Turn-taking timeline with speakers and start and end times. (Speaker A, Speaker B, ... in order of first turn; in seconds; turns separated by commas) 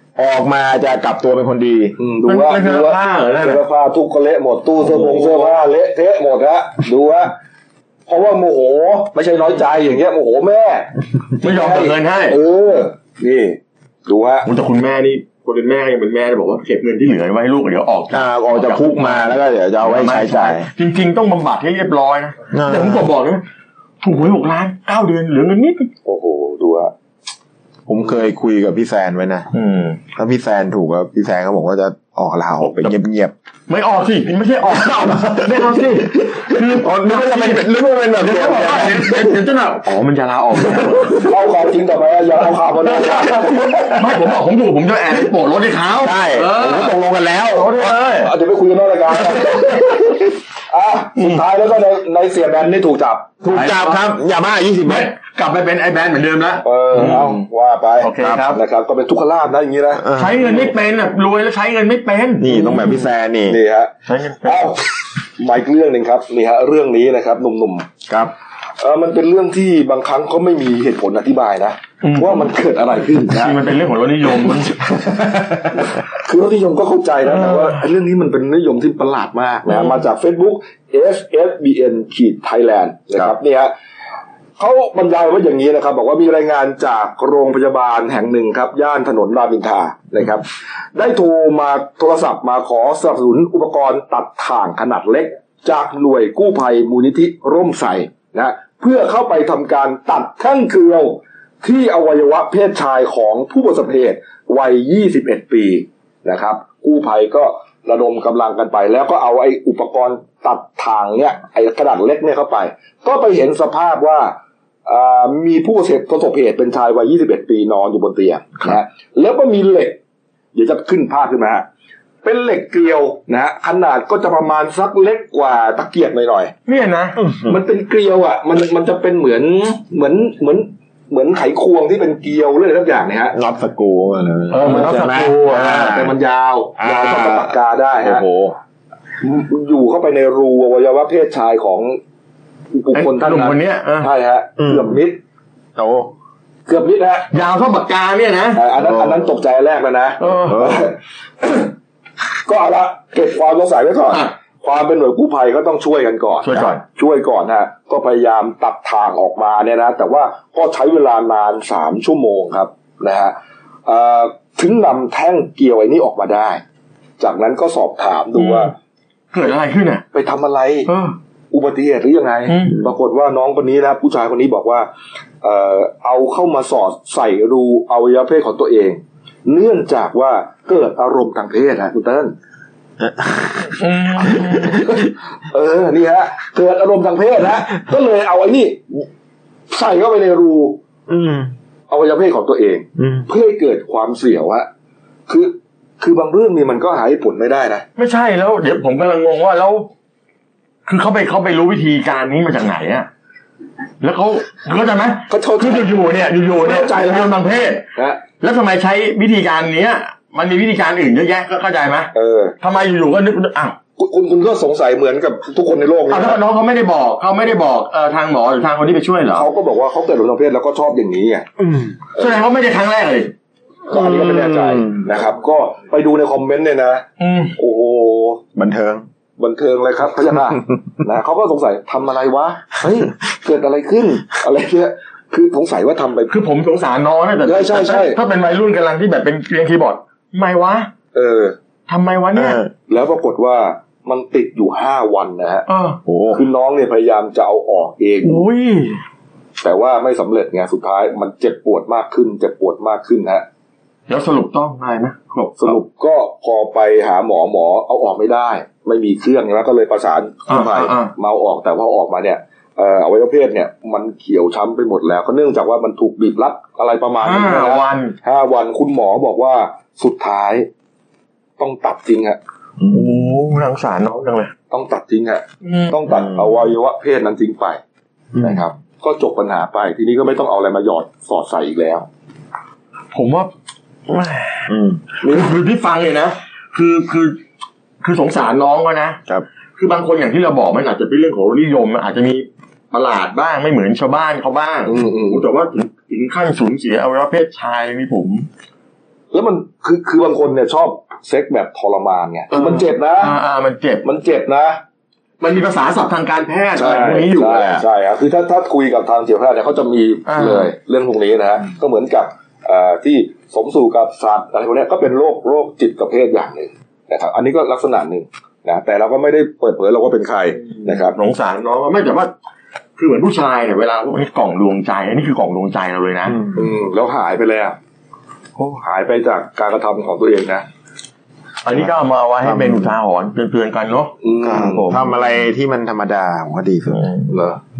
Speaker A: 0.2-2.0, Speaker B: 2.0-7.3, Speaker C: 2.3-3.6, Speaker B: 8.1-14.5, Speaker C: 11.4-12.4, Speaker C: 14.5-23.4, Speaker A: 18.1-20.7, Speaker A: 22.5-23.1, Speaker C: 24.0-25.9, Speaker B: 26.1-26.9, Speaker A: 27.9-29.5, Speaker C: 29.5-30.0, Speaker A: 30.2-33.3, Speaker C: 32.6-33.0, Speaker C: 33.7-37.7, Speaker A: 35.1-35.5, Speaker A: 36.1-39.4, Speaker C: 38.2-41.3, Speaker A: 40.8-41.1, Speaker B: 41.1-44.0, Speaker C: 43.0-47.0, Speaker A: 46.0-47.9, Speaker C: 47.5-48.3, Speaker B: 48.2-53.4, Speaker C: 51.2-51.4, Speaker A: 53.4-55.1, Speaker C: 53.5-54.0, Speaker C: 54.9-57.4, Speaker B: 56.6-60.1, Speaker C: 58.0-58.6, Speaker A: 58.2-58.5, Speaker A: 60.0-60.6, Speaker C: 60.1-63.1, Speaker A: 62.4-63.6, Speaker B: 63.5-63.9, Speaker C: 64.1-64.8, Speaker B: 64.4-67.9, Speaker B: 68.8-73.6, Speaker C: 72.0-72.5, Speaker C: 73.3-74.8, Speaker B: 74.7-83.7, Speaker C: 77.3-77.8, Speaker B: 84.6-120.0, Speaker B: 120.5-121.7, Speaker B: 122.2-126.5, Speaker C: 126.7-127.2, Speaker A: 127.2-127.6, Speaker B: 127.5-133.3, Speaker A: 133.3-136.1, Speaker C: 134.5-136.0, Speaker B: 134.6-138.3, Speaker A: 136.8-138.6, Speaker B: 139.2-142.0, Speaker B: 142.7-145.2, Speaker C: 142.9-144.1, Speaker A: 144.6-145.0, Speaker A: 145.8-146.1, Speaker B: 146.7-147.4, Speaker C: 147.3-148.7, Speaker B: 148.6-151.7, Speaker A: 148.8-149.2, Speaker C: 150.2-150.8, Speaker A: 150.5-150.8, Speaker B: 152.5-163.3, Speaker C: 156.4-156.8, Speaker B: 163.9-166.6, Speaker B: 167.2-168.7, Speaker C: 168.4-168.7, Speaker C: 169.3-170.1, Speaker B: 170.1-170.9, Speaker C: 170.9-171.2, Speaker B: 171.5-174.9, Speaker C: 172.5-172.8, Speaker B: 175.4-182.3, Speaker A: 183.1-183.8, Speaker C: 183.8-184.9, Speaker A: 184.3-184.9, Speaker B: 184.7-189.1, Speaker B: 189.7-190.8, Speaker A: 191.1-191.5, Speaker B: 191.9-194.7, Speaker A: 193.0-193.2, Speaker B: 195.3-197.8, Speaker C: 198.0-199.9, Speaker C: 200.9-203.1, Speaker C: 204.0-213.8, Speaker B: 205.3-205.9, Speaker B: 206.6-207.4, Speaker B: 207.9-208.2, Speaker B: 212.1-212.6, Speaker B: 214.0-216.4, Speaker C: 216.1-219.5, Speaker B: 219.3-221.5, Speaker A: 221.6-221.9, Speaker C: 222.2-223.3, Speaker B: 223.9-227.1, Speaker A: 223.9-225.1, Speaker C: 227.2-227.5, Speaker B: 227.6-228.4, Speaker A: 228.6-229.1, Speaker B: 229.4-236.3, Speaker C: 236.3-240.9, Speaker B: 237.4-238.2, Speaker B: 241.1-241.6, Speaker C: 241.9-242.6, Speaker A: 242.4-242.7, Speaker B: 242.9-245.7, Speaker C: 245.7-246.0, Speaker A: 246.1-246.4, Speaker B: 246.3-248.5, Speaker C: 248.2-249.0, Speaker B: 249.6-253.4, Speaker C: 254.1-255.8, Speaker B: 255.6-270.7, Speaker C: 260.5-261.1, Speaker C: 267.2-268.2, Speaker B: 271.6-272.4, Speaker C: 272.9-274.5, Speaker B: 274.7-277.8, Speaker C: 275.6-276.0, Speaker A: 276.1-276.4, Speaker A: 278.3-278.6, Speaker B: 278.4-282.1, Speaker C: 283.1-283.5, Speaker C: 284.1-284.7, Speaker A: 284.7-285.0, Speaker B: 285.2-285.6, Speaker C: 285.2-287.4, Speaker C: 288.0-289.2, Speaker C: 289.8-298.5, Speaker B: 294.9-295.4, Speaker B: 299.3-303.4, Speaker C: 302.5-304.0, Speaker B: 304.0-304.8, Speaker C: 305.4-307.8, Speaker B: 306.8-321.2, Speaker C: 310.3-310.7, Speaker C: 321.0-322.3, Speaker C: 323.0-326.4, Speaker B: 326.5-327.8, Speaker B: 328.6-330.6, Speaker C: 331.6-335.0, Speaker A: 332.4-332.9, Speaker B: 334.2-334.9, Speaker A: 334.4-337.0, Speaker C: 336.9-337.3, Speaker B: 337.3-337.6